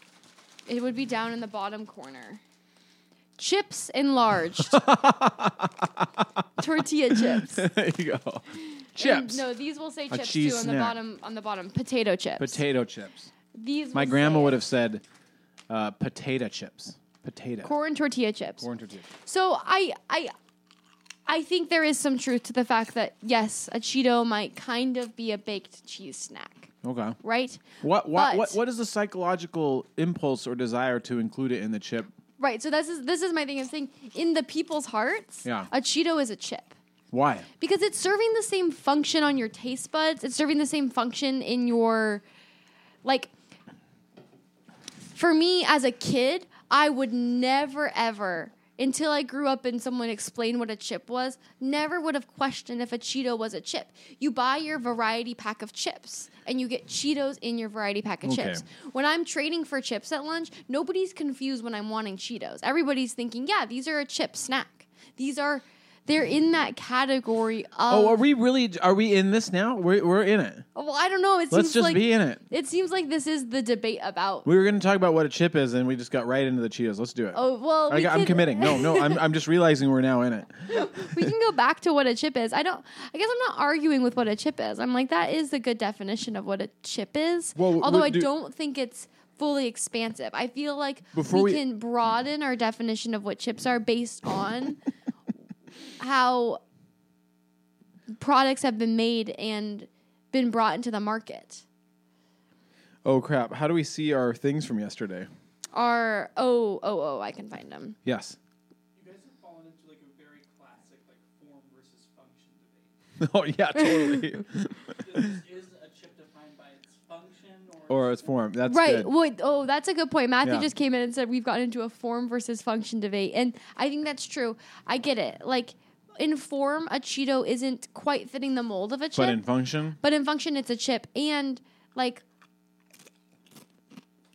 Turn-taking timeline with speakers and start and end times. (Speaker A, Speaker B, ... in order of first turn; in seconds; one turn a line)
Speaker A: 0.7-2.4
Speaker A: 3.4-4.8
Speaker B: 4.7-6.3
Speaker A: 6.6-7.7
Speaker B: 7.1-9.4
Speaker A: 9.0-12.6
Speaker B: 10.1-11.0
Speaker B: 12.4-13.3
Speaker A: 13.5-14.6
Speaker B: 13.9-15.0
Speaker B: 15.7-17.7
Speaker A: 17.6-18.7
Speaker B: 18.6-19.1
Speaker A: 19.2-20.3
Speaker A: 21.3-28.6
Speaker B: 26.8-27.2
Speaker B: 27.8-32.1
Speaker A: 32.4-36.8
Speaker B: 35.4-35.7
Speaker B: 37.1-37.5
Speaker A: 37.6-42.2
Speaker A: 43.0-43.3
Speaker A: 45.1-68.2
Speaker B: 58.2-58.6
Speaker B: 67.9-70.6
Speaker A: 70.7-74.5
Speaker B: 71.5-72.4
Speaker B: 74.4-81.3
Speaker A: 77.3-79.2
Speaker A: 80.7-94.8
Speaker B: 87.5-88.3
Speaker B: 91.1-91.6
Speaker A: 96.0-96.6
Speaker A: 98.2-101.6
Speaker B: 103.0-105.3
Speaker A: 105.7-108.0
Speaker B: 108.0-108.4
Speaker C: 108.9-112.9
Speaker B: 113.2-115.4
Speaker A: 113.8-114.2
Speaker C: 114.9-118.3
Speaker B: 117.9-119.1
Speaker A: 118.7-129.4
Speaker B: 120.4-120.7
Speaker B: 129.1-130.0
Speaker A: 130.0-132.2